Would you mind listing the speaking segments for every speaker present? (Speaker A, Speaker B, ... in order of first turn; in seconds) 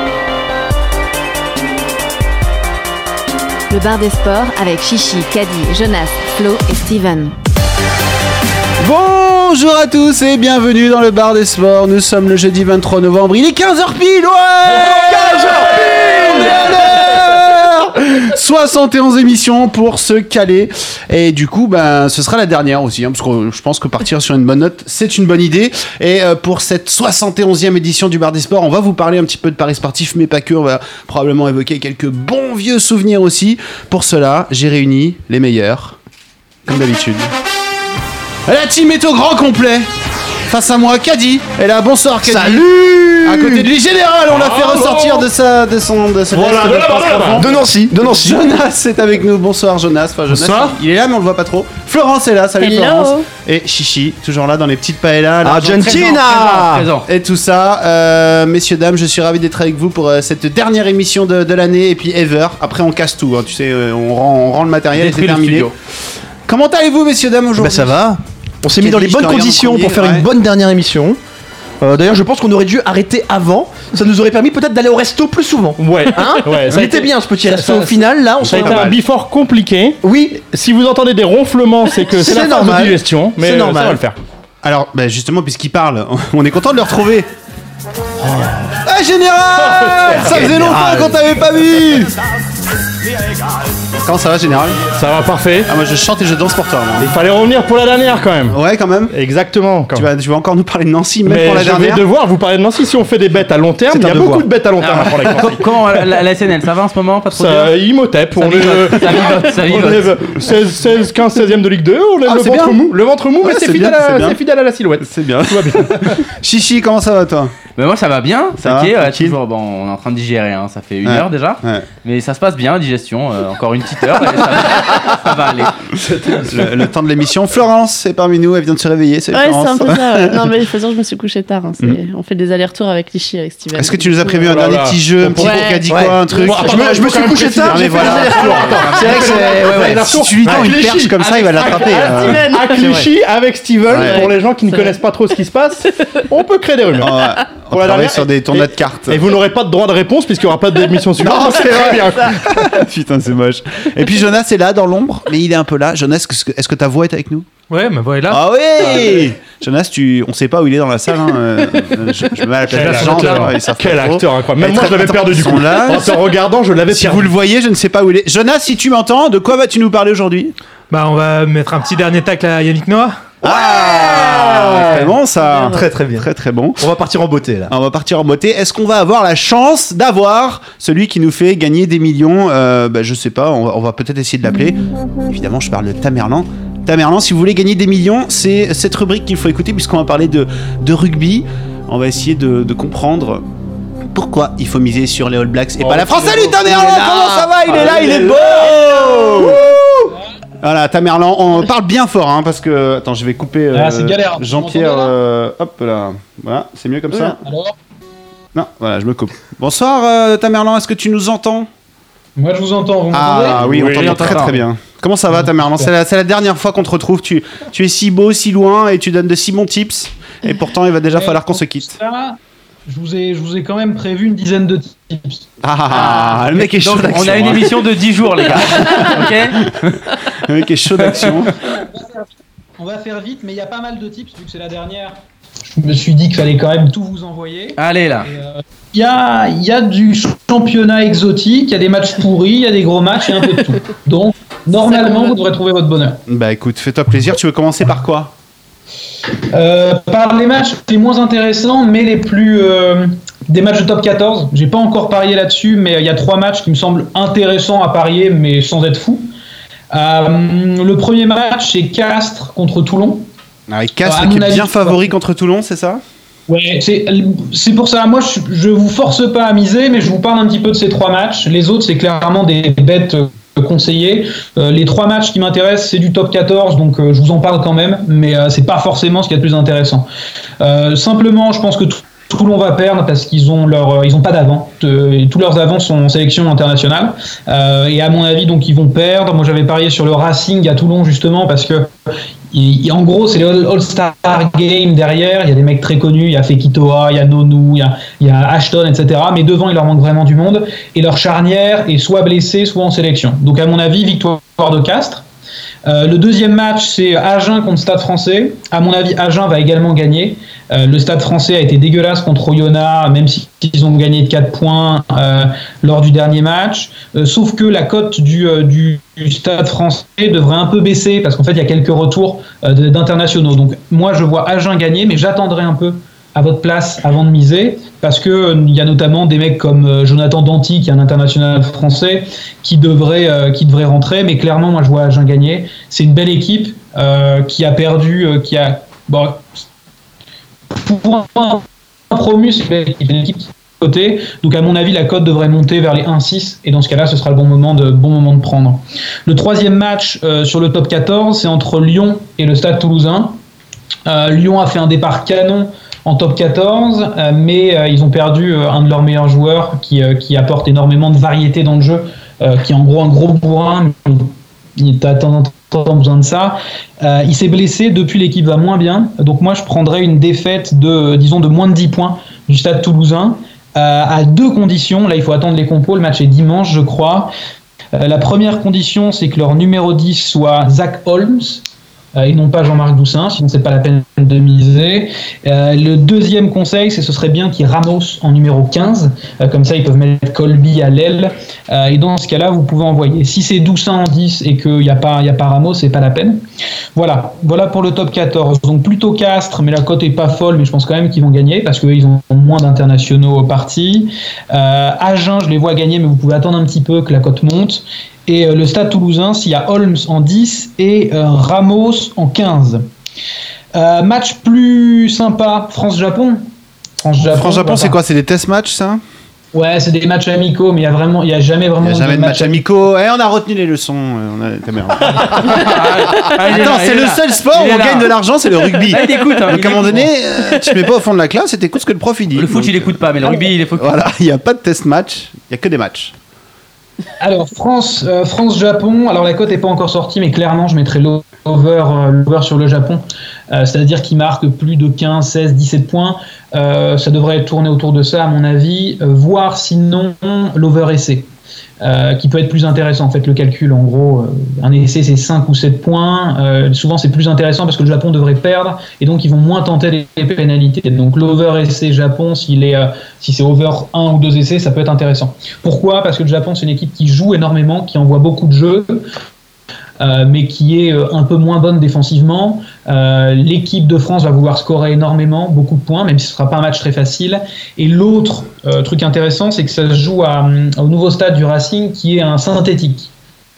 Speaker A: 3.7-7.3
Speaker B: 8.8-36.0, 36.7-37.3, 38.5-39.9, 40.5-56.2, 57.1-65.8, 66.5-68.0, 68.8-70.3, 78.5-78.8, 84.6-87.3, 88.8-92.2, 94.0-94.8, 95.7-97.2, 98.5-99.2, 99.9-102.0, 103.9-104.5, 112.2-114.4, 115.0-117.5, 118.6-119.4, 121.1-121.9, 126.5-130.4, 133.8-137.0, 137.7-142.5, 143.9-144.3, 147.0-149.3, 151.2-157.5, 158.3-166.2, 166.9-170.6, 173.4-176.8, 177.7-193.4, 194.1-199.8, 200.6-207.4, 208.6-211.7, 213.1-221.9, 225.6-227.9, 228.5-231.6, 246.3-248.3, 263.7-266.0, 417.3-419.0, 421.8-436.1
Speaker C: 15.1-16.6, 42.2-43.7, 47.4-48.4, 55.4-56.9, 67.6-71.2, 71.8-79.0, 80.0-80.4, 82.1-84.0, 90.2-91.2, 135.9-140.7, 173.5-175.1, 175.6-177.7
Speaker D: 44.3-45.3, 46.3-47.5, 50.3-50.8, 75.8-84.2, 88.2-88.7, 89.8-90.9, 94.9-95.7, 97.0-98.6, 99.1-100.1, 101.2-106.2, 107.3-116.2, 126.0-126.7, 134.4-135.8, 136.4-152.6, 162.7-167.3, 195.8-199.5, 213.6-214.6
Speaker E: 52.6-53.3, 129.3-134.5, 135.4-136.6, 141.6-143.1, 143.9-145.0, 175.4-175.7
Speaker F: 55.8-57.1, 65.0-65.7, 104.8-107.8, 108.3-110.4, 117.8-125.8, 214.0-214.4, 225.9-229.6, 237.8-238.3, 425.4-428.1, 428.8-430.1, 432.4-434.0
Speaker G: 157.7-158.5, 162.8-163.6, 170.9-173.3
Speaker H: 203.7-205.1, 207.1-207.8, 212.4-214.3, 215.4-215.9, 221.1-225.5, 231.9-232.3, 232.8-246.2, 249.5-259.3, 259.9-263.3, 264.0-265.1, 266.5-280.1, 280.6-291.9, 292.5-305.2, 305.9-339.5, 340.7-353.4, 354.1-377.3, 377.9-381.6, 382.1-396.4, 397.0-412.8, 413.8-416.4, 417.0-418.0, 419.5-422.7, 437.2-451.3, 451.8-469.1, 470.0-483.1